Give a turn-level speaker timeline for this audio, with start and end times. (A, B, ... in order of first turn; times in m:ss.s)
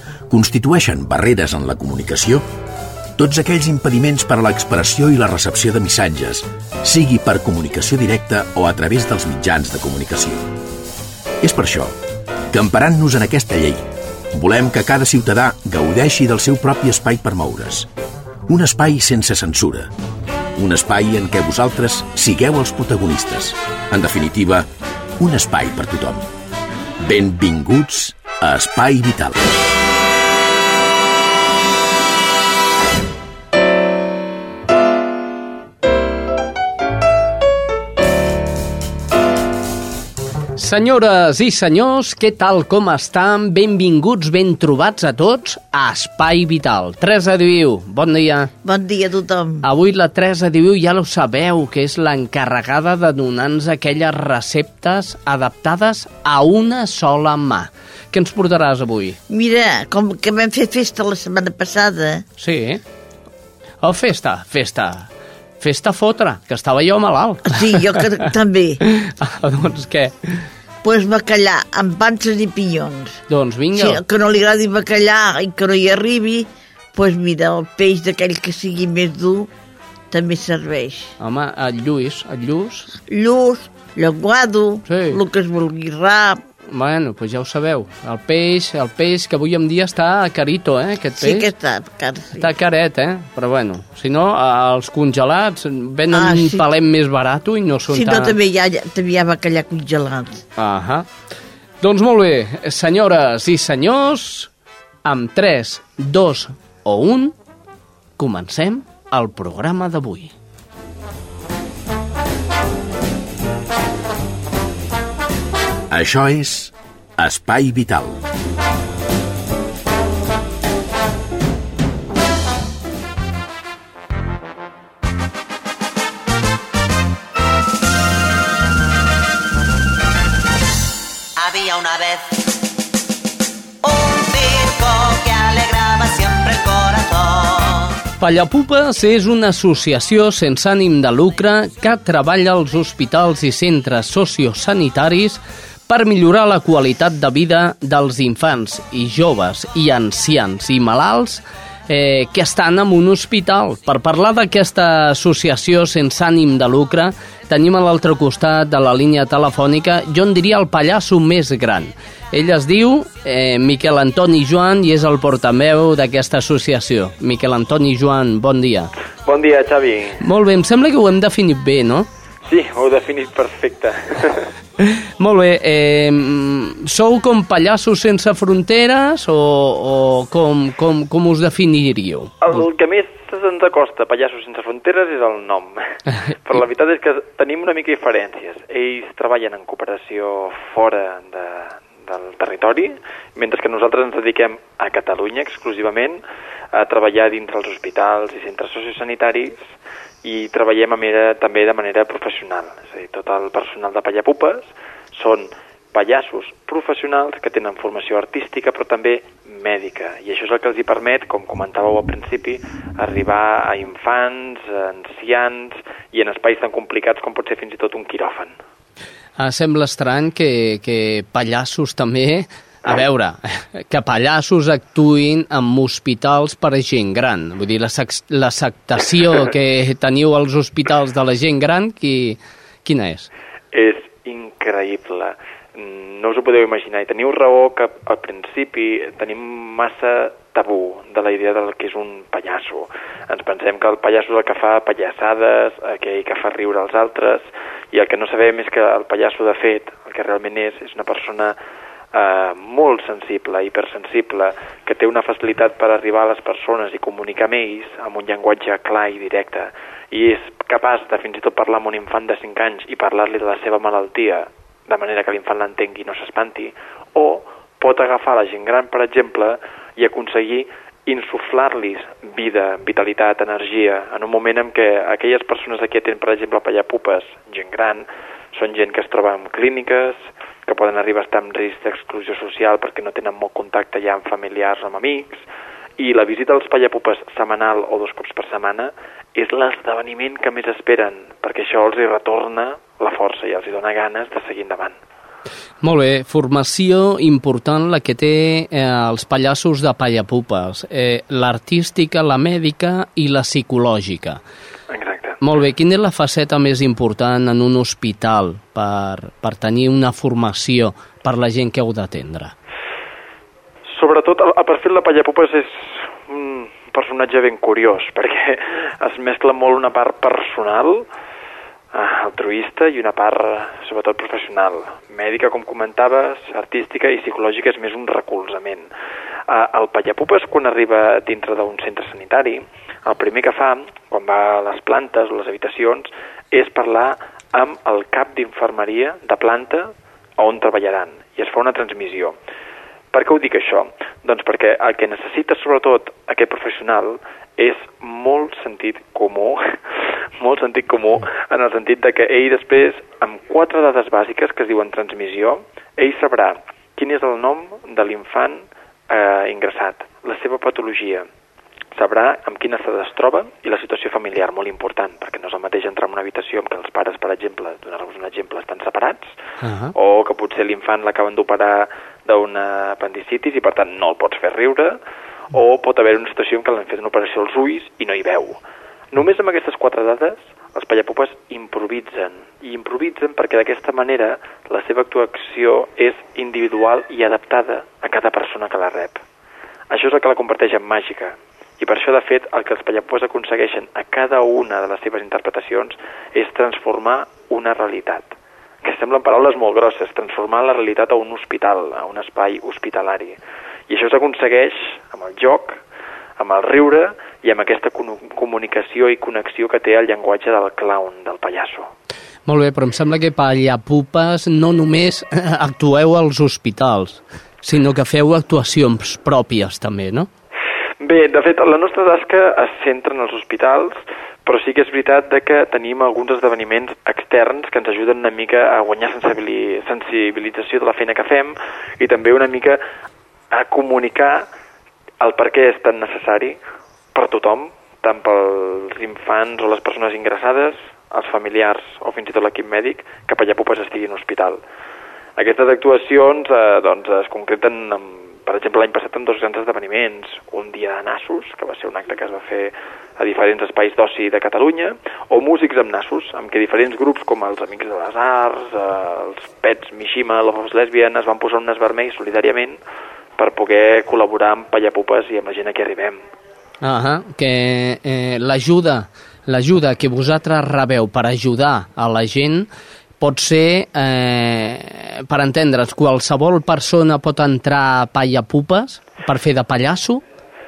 0:00.3-0:02.4 A
0:03.2-0:10.5 A
0:11.4-0:11.9 A
0:12.5-0:17.9 A
0:18.5-0:19.9 A
0:20.6-0:24.7 A
0:25.2-0:26.3 A
0:27.0-0:29.4 A
0:40.6-0:48.5 B
0:48.6-0:49.6 C
0:49.6-0:59.2 B
0:59.3-1:02.2 C
1:02.4-1:02.8 B
1:03.8-1:05.1 B
1:05.6-1:07.8 B
1:07.5-1:08.8 C
1:08.8-1:10.4 B
1:10.8-1:13.2 C
1:13.3-1:14.0 B
1:13.7-1:19.5 C
1:20.1-1:21.1 C
1:21.2-1:22.9 B
1:23.1-1:26.4 C
1:24.8-1:25.2 B
1:26.7-1:31.5 B
1:31.2-1:32.5 C
1:32.4-1:38.3 B
1:36.1-1:36.6 C
1:37.9-1:40.4 C
1:40.6-1:41.1 B
1:41.8-1:44.5 B
1:45.0-1:47.3 B
1:48.2-1:50.3 B
1:55.9-1:58.2 A
2:11.4-2:12.4 D
2:13.8-2:17.9 D
2:18.2-2:48.9 B
2:49.2-2:50.2 E
2:50.2-2:52.1 B
2:52.4-2:54.5 E
2:54.8-3:02.3 B
3:02.4-3:16.2 E
3:16.7-3:38.5 E
3:39.4-3:53.3 B
3:53.7-4:11.6 E
4:12.1-4:45.4 E
4:46.0-4:55.0 E
4:55.8-5:04.4 B
5:04.9-5:05.4 E
5:05.4-5:12.5 B
5:13.9-5:21.1 E
5:21.9-5:28.9 E
5:29.5-5:42.4 E
5:43.1-6:01.3 E
6:01.9-6:09.3 E
6:09.6-6:09.9 B
6:09.9-6:15.0 E
6:15.5-6:18.6 E
6:19.1-6:29.2 E
6:29.9-6:45.8 E
6:46.4-6:51.9 E
6:52.4-7:00.3 B
7:01.0-7:12.8 E
7:13.5-7:14.5 E
7:15.2-7:16.6 E
7:17.1-7:24.6 E
7:25.4-7:42.8 E
7:43.4-7:46.2 E
7:46.8-7:52.7 B
7:53.2-8:00.2 B